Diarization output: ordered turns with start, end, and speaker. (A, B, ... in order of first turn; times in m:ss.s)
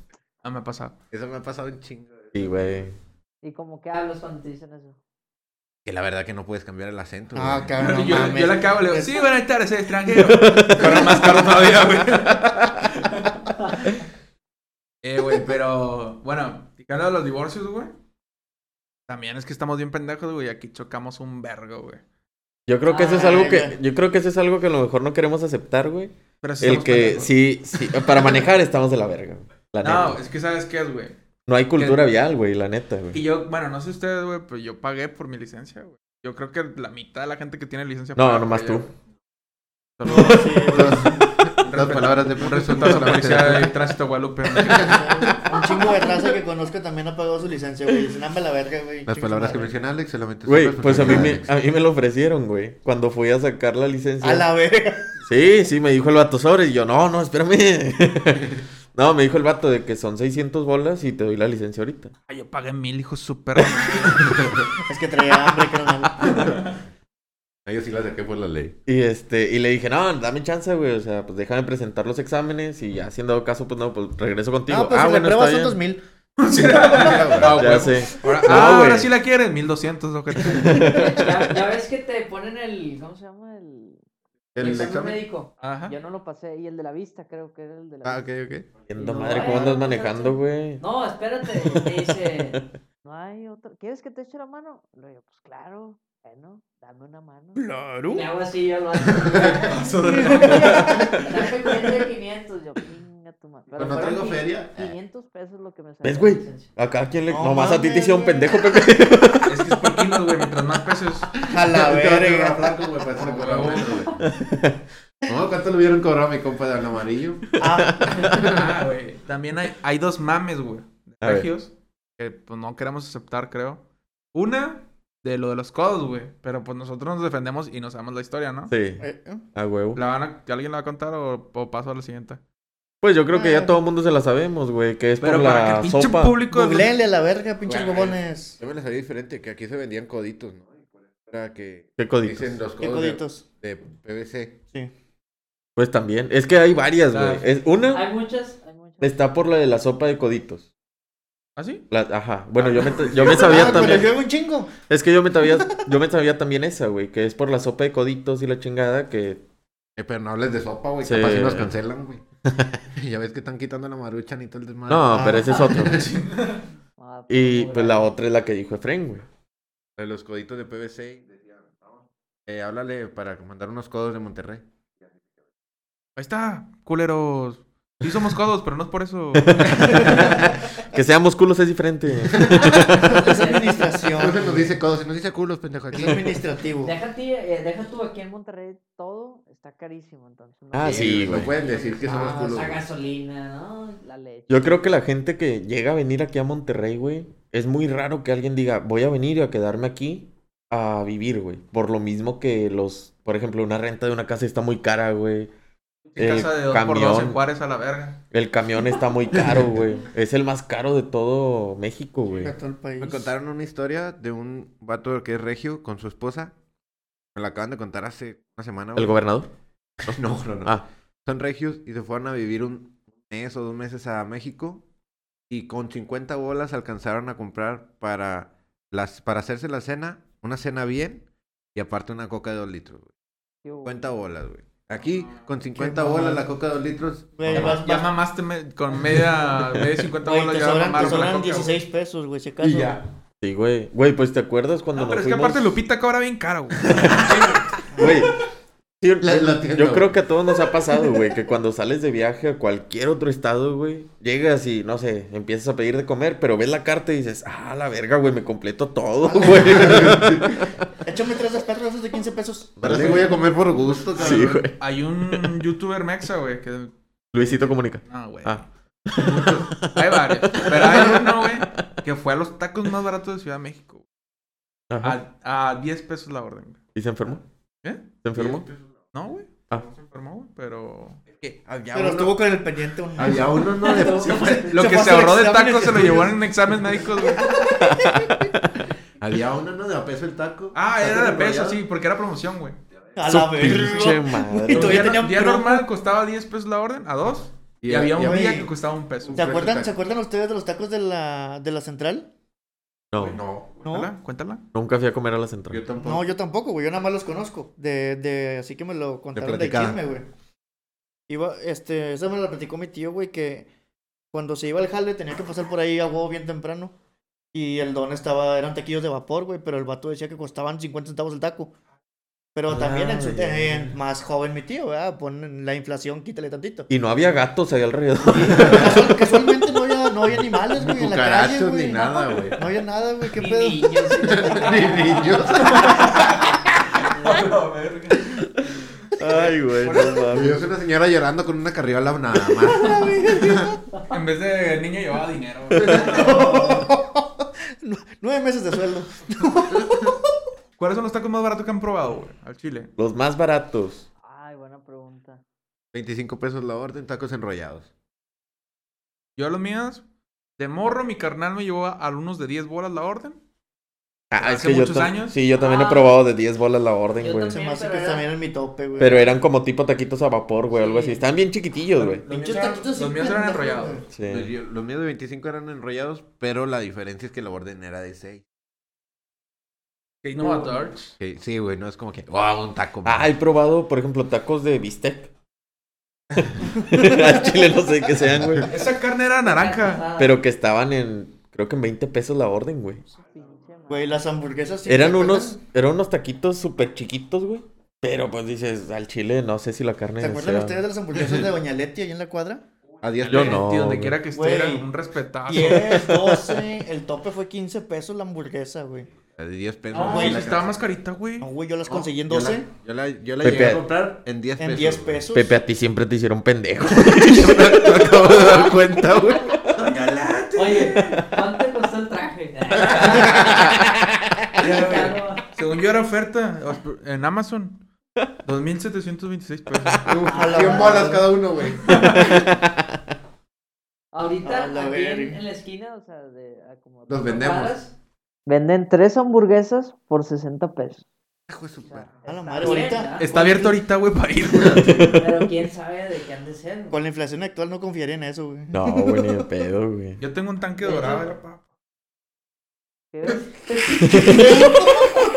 0:00.4-0:00.9 A
0:01.1-0:02.3 B
0:02.3-0:03.0 C
0:03.4-0:05.0 D
0:05.8-0:08.4 B
0:07.3-0:09.2 E
0:07.8-0:13.4 A
0:10.2-0:12.9 C
0:15.0-0:17.9 A
0:19.1-0:22.0 A
0:22.7-0:30.2 C
0:22.9-0:23.5 D
0:22.9-0:23.8 E
0:26.4-0:27.3 A
0:29.8-0:31.2 A
0:31.5-0:33.2 C
0:31.8-0:32.1 A
0:33.1-0:38.9 A
0:38.2-0:38.9 C
0:40.0-0:40.9 A
0:40.0-0:41.3 E
0:40.1-0:43.8 B
0:41.6-0:45.3 A
0:44.5-0:45.1 B
0:44.7-0:49.7 E
0:49.1-0:51.5 B
0:50.5-0:54.5 C
0:54.2-0:55.2 E
0:55.3-1:02.1 C
1:02.3-1:04.6 A
1:04.2-1:04.6 B
1:04.9-1:06.5 E
1:06.2-1:06.7 A
1:07.7-1:08.8 B
1:08.9-1:15.8 C
1:14.7-1:16.0 E
1:16.4-1:21.2 A
1:16.9-1:17.6 B
1:17.5-1:19.1 C
1:20.4-1:21.3 C
1:20.7-1:24.0 D
1:24.6-1:25.2 B
1:24.6-1:28.3 D
1:25.6-1:25.9 A
1:28.0-1:28.7 B
1:28.9-1:30.8 C
1:28.9-1:46.7 D
1:31.5-1:32.6 C
1:37.6-1:38.2 A
1:39.2-1:39.6 B
1:39.4-1:41.3 A
1:40.0-1:41.2 E
1:40.5-1:41.1 C
1:43.8-1:44.9 B
1:46.0-1:50.0 C
1:47.3-1:48.7 E
1:49.5-1:51.4 A
1:51.4-1:54.3 B
1:51.5-1:52.7 E
1:53.2-1:54.1 A
1:54.2-1:54.8 C
1:55.3-1:57.6 B
1:57.6-1:58.4 E
1:57.6-1:58.6 C
1:58.2-1:58.7 B
1:58.4-2:03.8 A
2:01.2-2:01.5 C
2:04.3-2:08.7 A
2:08.7-2:09.0 C
2:09.0-2:09.4 E
2:09.6-2:10.0 C
2:10.0-2:12.4 A
2:13.0-2:16.4 C
2:13.3-2:13.8 E
2:15.2-2:16.9 A
2:16.5-2:18.6 E
2:17.7-2:20.7 B
2:21.2-2:24.6 B
2:22.0-2:22.6 C
2:22.8-2:23.5 E
2:25.8-2:28.0 C
2:27.1-2:27.5 A
2:27.9-2:29.2 D
2:29.0-2:30.6 C
2:31.6-2:31.8 A
2:31.9-2:34.1 C
2:32.7-2:34.1 B
2:33.1-2:34.7 E
2:34.9-2:39.4 C
2:35.4-2:35.8 E
2:40.0-2:42.2 B
2:41.0-2:41.7 C
2:42.5-2:42.8 C
2:42.9-2:46.1 B
2:44.9-2:46.1 C
2:45.1-2:45.7 E
2:45.6-2:46.6 A
2:47.0-2:48.1 D
2:47.3-2:49.3 C
2:50.0-2:51.7 B
2:52.5-2:54.6 B
2:56.2-3:00.5 A
2:59.4-3:03.2 C
3:02.3-3:02.7 B
3:02.5-3:04.4 D
3:03.1-3:04.7 E
3:04.2-3:06.4 B
3:05.9-3:06.9 E
3:06.8-3:14.8 D
3:10.7-3:11.5 C
3:10.8-3:12.8 B
3:14.5-3:25.5 C
3:26.1-3:28.2 A
3:26.2-3:27.4 C
3:28.3-3:32.6 C
3:29.4-3:29.7 B
3:32.4-3:33.3 E
3:33.0-3:36.5 B
3:37.4-3:39.2 B
3:39.0-3:39.5 C
3:40.0-3:44.8 B
3:45.5-3:53.1 B
3:53.6-3:54.1 D
3:53.8-3:57.6 B
3:55.0-3:55.5 A
3:55.8-3:56.5 E
3:57.4-3:58.1 E
3:57.5-3:57.8 C
3:57.5-4:01.7 A
4:00.2-4:03.0 E
4:02.6-4:03.0 B
4:03.4-4:05.8 C
4:04.9-4:08.2 A
4:06.8-4:07.4 B
4:06.9-4:08.3 C
4:07.9-4:08.2 E
4:09.0-4:20.8 C
4:09.2-4:10.2 B
4:19.2-4:20.4 E
4:19.6-4:20.6 B
4:21.0-4:23.3 E
4:22.8-4:23.3 C
4:22.8-4:24.7 B
4:24.2-4:24.8 C
4:24.3-4:28.7 A
4:27.3-4:31.9 C
4:29.2-4:34.0 A
4:34.9-4:35.2 C
4:35.0-4:36.8 A
4:37.0-4:37.4 C
4:38.2-4:38.7 C
4:38.4-4:38.8 B
4:39.1-4:41.2 A
4:41.4-4:42.4 B
4:41.9-4:43.7 E
4:43.2-4:44.6 B
4:43.7-4:44.9 D
4:44.0-4:47.7 A
4:44.6-4:48.4 E
4:47.7-4:48.8 C
4:49.2-4:51.8 B
4:50.7-4:52.8 A
4:53.2-4:55.9 E
4:53.3-4:55.2 C
4:54.7-4:59.5 A
4:57.8-4:58.6 B
4:58.2-4:58.7 E
4:59.2-4:59.9 B
4:59.4-5:02.3 E
5:03.1-5:03.4 C
5:03.2-5:04.6 A
5:03.2-5:03.8 B
5:03.8-5:04.1 E
5:04.7-5:05.8 C
5:05.7-5:06.3 B
5:06.0-5:10.3 E
5:09.3-5:10.0 B
5:11.3-5:13.7 E
5:14.3-5:16.9 E
5:17.5-5:21.7 E
5:22.6-5:26.9 E
5:22.7-5:24.0 C
5:26.9-5:29.3 C
5:28.3-5:34.6 E
5:28.5-5:29.1 B
5:30.7-5:32.6 B
5:33.3-5:36.3 D
5:34.2-5:36.2 B
5:35.6-5:38.4 A
5:37.0-5:37.6 D
5:39.2-5:40.6 C
5:39.3-5:40.3 A
5:40.3-5:43.7 B
5:42.7-5:43.8 E
5:44.0-5:46.8 A
5:45.8-5:46.3 B
5:45.8-5:46.1 C
5:45.9-5:50.3 E
5:46.3-5:46.8 D
5:49.8-5:50.1 B
5:50.8-5:52.9 A
5:53.0-5:54.1 C
5:54.2-5:55.4 D
5:55.9-5:57.9 B
5:59.4-6:00.0 A
6:00.6-6:03.4 A
6:04.3-6:07.6 C
6:04.4-6:05.4 A
6:05.6-6:06.1 D
6:07.2-6:08.3 D
6:07.5-6:09.2 E
6:09.0-6:12.2 C
6:10.7-6:11.2 D
6:12.0-6:14.0 A
6:12.3-6:14.0 E
6:14.1-6:14.5 C
6:14.2-6:18.4 B
6:20.2-6:21.2 A
6:20.4-6:20.8 D
6:21.2-6:23.3 B
6:23.0-6:25.3 C
6:26.4-6:28.7 C
6:26.9-6:27.3 E
6:28.7-6:30.1 A
6:29.4-6:30.4 D
6:30.2-6:33.0 C
6:33.1-6:34.3 D
6:33.9-6:35.6 E
6:34.8-6:40.8 C
6:40.2-6:42.6 E
6:43.0-6:43.6 B
6:43.2-6:46.1 A
6:43.3-6:44.2 C
6:44.3-6:44.9 E
6:45.5-6:49.1 E
6:45.5-6:46.6 C
6:49.4-6:50.8 B
6:49.9-6:51.5 A
6:49.9-6:50.5 E
6:51.4-6:52.7 E
6:51.9-6:55.2 B
6:53.4-6:53.8 C
6:54.6-6:55.5 E
6:55.3-6:58.7 C
6:57.0-6:59.6 B
6:59.3-6:59.8 C
6:59.7-7:01.3 A
7:00.6-7:03.8 D
7:02.8-7:03.5 B
7:02.8-7:03.6 A
7:03.4-7:04.4 C
7:04.6-7:05.5 D
7:04.6-7:07.8 A
7:08.4-7:10.1 A
7:10.0-7:11.9 B
7:10.2-7:11.2 D
7:10.3-7:11.3 E
7:11.8-7:12.4 A
7:11.9-7:13.1 C
7:14.1-7:17.9 D
7:14.4-7:15.4 E
7:17.1-7:17.8 B
7:18.5-7:21.0 D
7:21.5-7:22.2 B
7:21.8-7:23.3 D
7:22.3-7:23.8 E
7:23.2-7:25.1 A
7:24.8-7:25.3 C
7:25.0-7:27.0 D
7:26.9-7:29.5 E
7:28.7-7:30.2 C
7:30.2-7:31.6 A
7:30.8-7:31.3 D
7:33.1-7:34.7 D
7:34.0-7:35.2 C